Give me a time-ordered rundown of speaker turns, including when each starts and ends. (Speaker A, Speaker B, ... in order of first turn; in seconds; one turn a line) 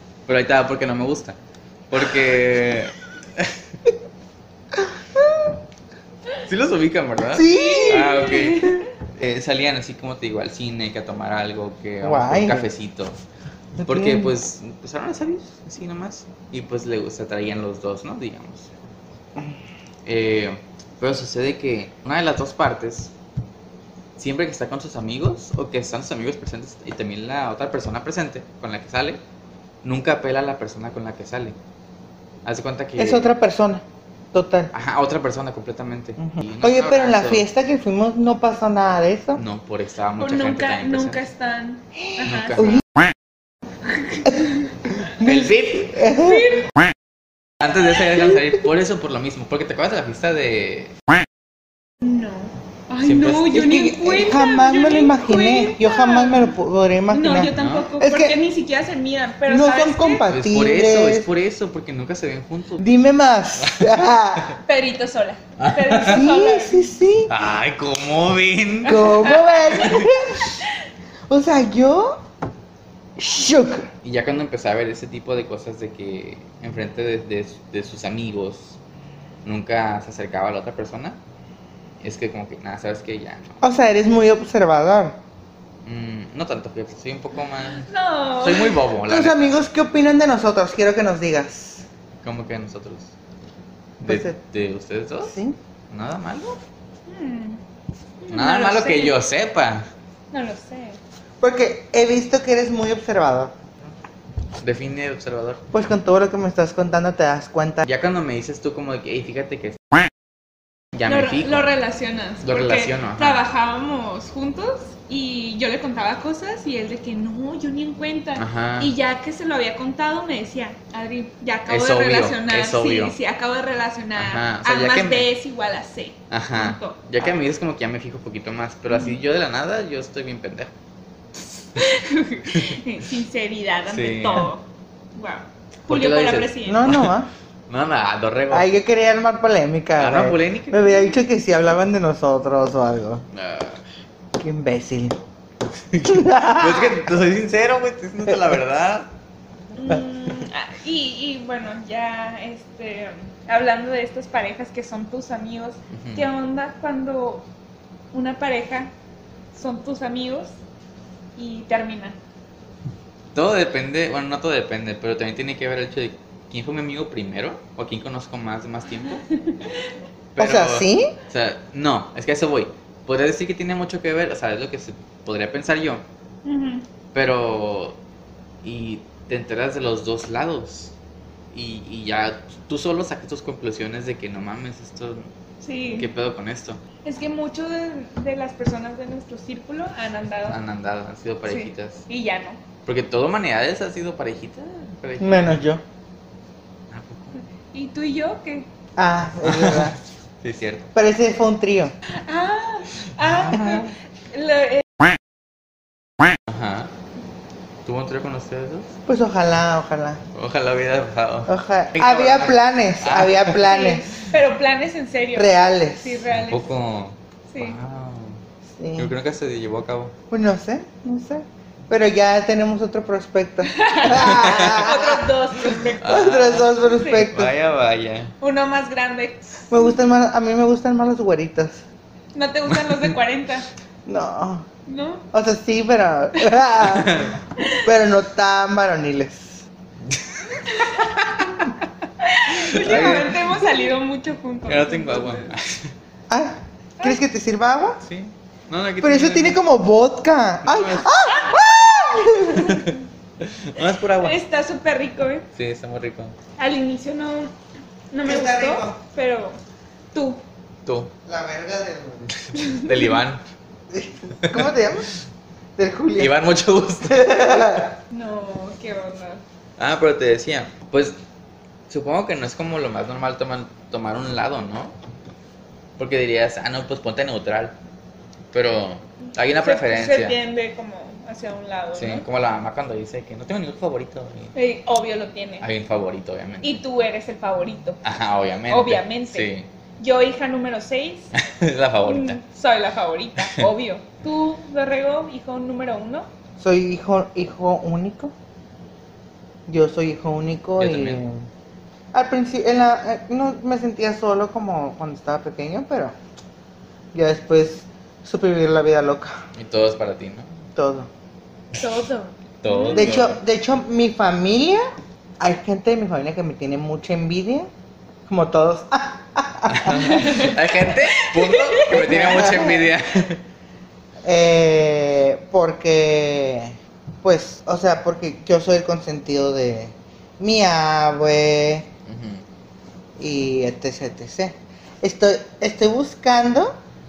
Speaker A: 0.3-1.4
Speaker A: 1.9-3.6
Speaker B: 4.7-5.6
Speaker A: 6.5-13.2
Speaker B: 7.3-8.6
Speaker C: 7.5-8.9
Speaker B: 12.0-12.7
Speaker B: 13.8-14.3
Speaker A: 13.8-18.7
Speaker A: 20.1-23.1
Speaker A: 24.2-29.2
Speaker A: 29.8-31.6
Speaker A: 32.5-33.3
Speaker B: 33.0-34.7
Speaker A: 34.7-37.5
Speaker B: 36.2-39.4
Speaker A: 39.4-41.2
Speaker C: 40.2-42.7
Speaker A: 42.2-42.8
Speaker B: 42.6-42.8
Speaker C: 43.9-45.1
Speaker B: 45.0-46.6
Speaker A: 45.2-46.0
Speaker C: 46.1-46.7
Speaker A: 47.6-51.0
Speaker C: 52.0-56.5
Speaker A: 53.0-53.6
Speaker B: 53.5-58.4
Speaker C: 57.1-60.3
Speaker A: 57.6-57.9
Speaker B: 59.5-61.3
Speaker A: 60.3-62.9
Speaker B: 62.8-64.6
Speaker A: 63.6-63.9
Speaker C: 64.7-66.9
Speaker A: 65.6-66.2
Speaker B: 66.0-67.3
Speaker A: 67.3-69.3
Speaker B: 68.8-70.5
Speaker C: 69.0-70.0
Speaker B: 71.3-72.2
Speaker B: 73.2-73.9
Speaker A: 74.0-78.8
Speaker A: 79.4-81.2
Speaker A: 82.0-83.6
Speaker B: 83.6-85.2
Speaker A: 85.8-89.4
Speaker C: 87.9-88.8
Speaker B: 89.1-91.9
Speaker A: 92.2-93.1
Speaker A: 94.0-95.3
Speaker B: 94.0-94.4
Speaker B: 95.3-95.6
Speaker A: 95.9-96.6
Speaker C: 97.1-97.6
Speaker C: 98.2-99.2
Speaker A: 98.3-99.9
Speaker C: 100.3-101.0
Speaker B: 101.4-103.5
Speaker A: 104.6-105.6
Speaker B: 105.7-107.9
Speaker A: 107.8-110.1
Speaker A: 110.9-111.7
Speaker C: 111.1-127.0
Speaker A: 112.4-113.4
Speaker A: 118.4-118.9
Speaker A: 121.7-123.2
Speaker A: 124.2-125.3
Speaker A: 126.3-130.7
Speaker C: 128.9-129.2
Speaker C: 131.8-137.0
Speaker A: 132.5-132.8
Speaker A: 133.9-134.5
Speaker A: 135.9-137.2
Speaker B: 136.7-137.3
Speaker A: 137.7-138.7
Speaker B: 138.5-143.2
Speaker A: 140.0-141.2
Speaker A: 143.3-143.8
Speaker B: 144.4-145.2
Speaker A: 145.9-149.1
Speaker B: 146.0-147.1
Speaker C: 149.8-157.5
Speaker A: 155.9-156.3
Speaker C: 158.1-158.9
Speaker C: 159.5-160.6
Speaker C: 161.4-162.2
Speaker A: 163.3-169.3
Speaker C: 169.4-169.7
Speaker A: 170.3-176.0
Speaker B: 170.4-171.1
Speaker C: 176.4-176.8
Speaker A: 177.1-178.0
Speaker A: 178.6-180.9
Speaker A: 181.5-185.3
Speaker C: 185.6-186.1
Speaker A: 185.9-186.8
Speaker C: 187.0-190.6
Speaker A: 190.5-192.1
Speaker C: 191.5-192.6
Speaker A: 192.8-195.6
Speaker B: 195.2-195.8
Speaker A: 196.9-197.4
Speaker C: 197.7-198.7
Speaker B: 199.0-200.0
Speaker A: 199.4-200.9
Speaker B: 200.9-201.9
Speaker C: 202.1-204.9
Speaker A: 203.2-203.8
Speaker B: 203.5-203.8
Speaker A: 206.5-206.9
Speaker A: 207.8-208.9
Speaker B: 209.1-210.2
Speaker A: 210.3-213.7
Speaker B: 211.5-214.1
Speaker C: 213.6-216.7
Speaker B: 215.3-216.2
Speaker A: 216.3-218.4
Speaker C: 217.5-217.8
Speaker B: 218.8-219.1
Speaker A: 219.0-220.2
Speaker B: 220.3-227.5
Speaker C: 223.7-227.3
Speaker A: 224.1-224.9
Speaker A: 226.0-228.3
Speaker C: 228.4-229.8
Speaker B: 229.7-231.8
Speaker C: 232.3-233.7
Speaker A: 232.8-233.1
Speaker B: 234.1-234.7
Speaker C: 234.9-235.3
Speaker B: 235.3-239.6
Speaker A: 236.8-237.3
Speaker C: 237.6-237.9
Speaker A: 240.1-241.1
Speaker C: 240.6-241.4
Speaker C: 242.2-245.5
Speaker A: 242.6-243.7
Speaker A: 244.7-245.9
Speaker B: 246.3-248.0
Speaker A: 248.0-249.6
Speaker B: 249.0-252.9
Speaker A: 250.6-251.1
Speaker A: 252.7-254.4
Speaker C: 254.2-255.5
Speaker A: 255.6-256.4
Speaker C: 256.6-257.5
Speaker C: 258.1-259.6
Speaker B: 258.2-259.0
Speaker C: 260.1-260.4
Speaker A: 260.9-261.1
Speaker B: 261.3-262.3
Speaker A: 262.3-263.4
Speaker C: 262.6-262.9
Speaker B: 263.9-265.1
Speaker A: 264.4-264.7
Speaker B: 265.8-266.4
Speaker A: 266.2-267.9
Speaker B: 267.0-267.9
Speaker C: 268.1-269.4
Speaker A: 269.8-271.2
Speaker A: 271.9-274.9
Speaker A: 276.0-277.8
Speaker A: 278.5-280.4
Speaker C: 279.6-282.3
Speaker A: 281.9-284.5
Speaker C: 284.6-285.7
Speaker A: 285.6-286.8
Speaker C: 286.6-288.0
Speaker A: 288.0-289.7
Speaker C: 288.7-291.3
Speaker A: 291.3-292.4
Speaker C: 292.0-296.3
Speaker B: 296.6-298.3
Speaker B: 299.7-301.5
Speaker A: 300.8-301.2
Speaker B: 302.1-306.2
Speaker B: 307.1-309.4
Speaker A: 309.6-310.5
Speaker B: 310.8-311.1
Speaker C: 311.8-313.2
Speaker A: 312.6-313.4
Speaker B: 312.9-314.9
Speaker B: 315.4-317.7
Speaker B: 318.3-320.4
Speaker A: 319.7-323.4
Speaker C: 319.9-322.3
Speaker B: 321.9-322.9
Speaker B: 324.2-331.9
Speaker A: 332.1-332.4
Speaker B: 333.2-336.8